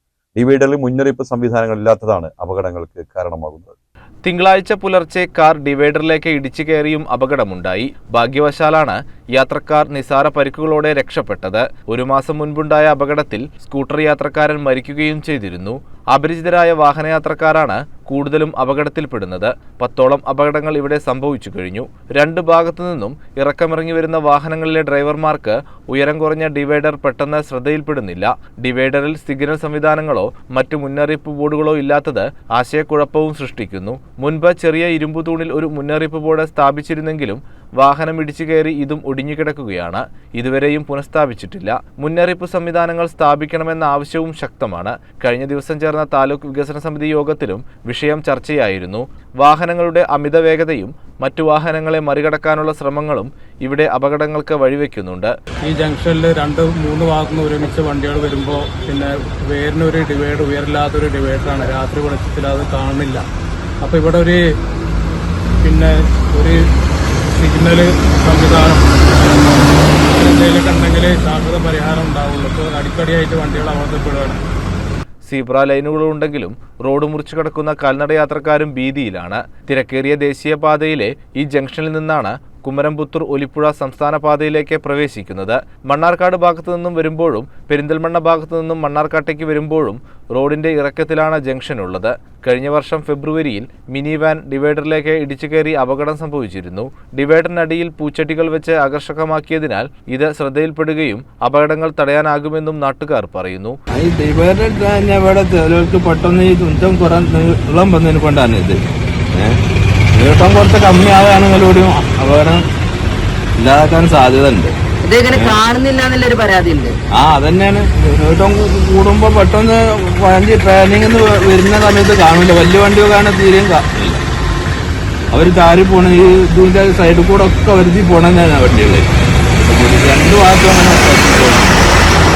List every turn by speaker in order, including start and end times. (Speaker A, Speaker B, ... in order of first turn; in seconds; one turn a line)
Speaker A: 0.3-3.8
Speaker B: 4.2-55.3
Speaker C: 55.6-63.2
Speaker C: 63.8-64.4
Speaker C: 65.6-66.6
Speaker C: 67.3-74.4
Speaker B: 75.2-103.8
Speaker D: 103.9-108.8
Speaker D: 109.3-109.6
Speaker D: 110.1-112.6
Speaker D: 113.6-114.7
Speaker E: 115.0-117.0
Speaker D: 117.1-124.2
Speaker D: 125.3-129.1
Speaker D: 129.6-132.0